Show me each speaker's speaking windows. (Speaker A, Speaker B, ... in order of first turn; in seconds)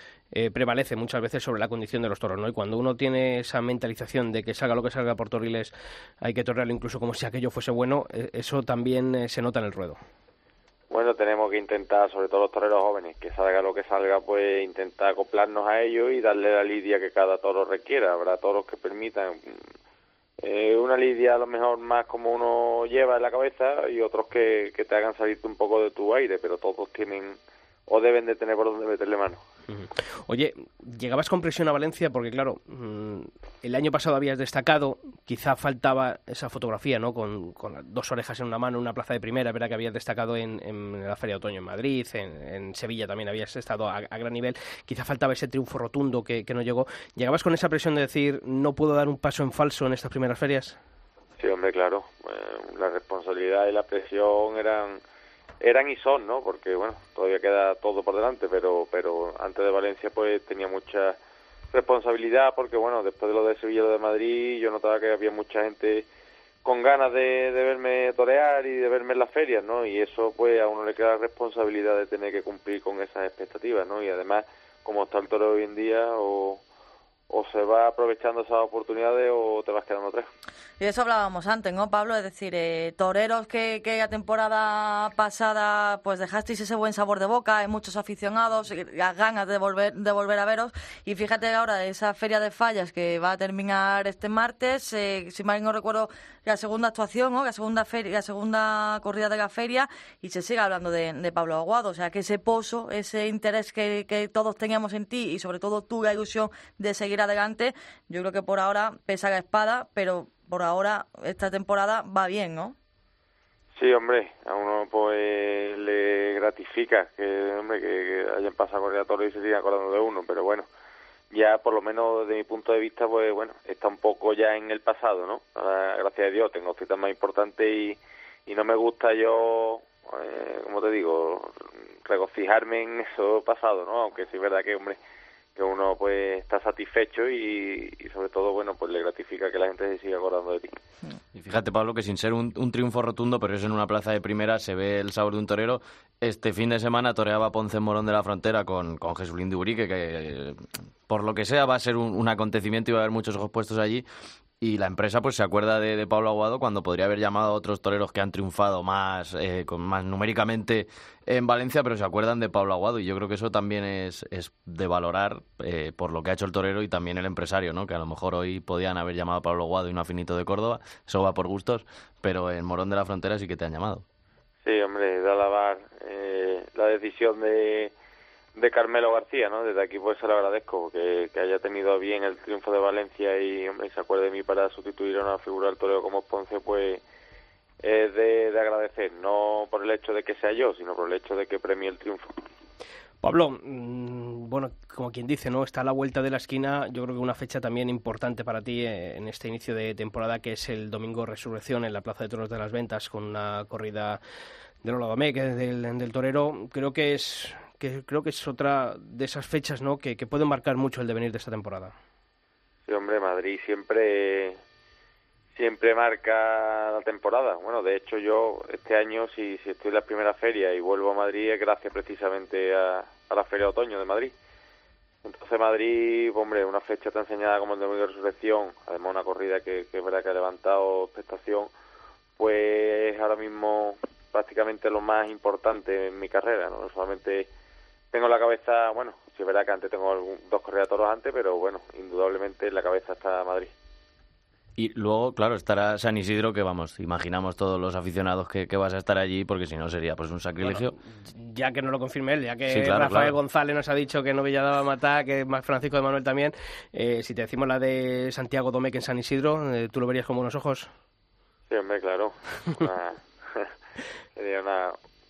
Speaker A: 0.3-10.0, 29.7-50.8, 193.2-204.2, 204.8-211.9, 250.6-260.9
Speaker B: 10.9-19.7, 20.4-29.4, 51.4-55.0, 55.6-61.2, 61.7-66.1, 66.6-76.6, 77.3-80.3, 113.8-120.7, 121.3-135.0, 135.6-140.8, 174.6-177.9, 178.6-187.0, 187.8-192.4, 212.9-214.6, 215.5-224.3, 225.2-231.7, 232.4-237.5, 238.1-243.7, 261.7-263.7, 264.4-265.0
Speaker C: 80.8-112.8
Speaker D: 141.3-154.1, 154.6-174.0, 244.8-250.9, 252.7-253.4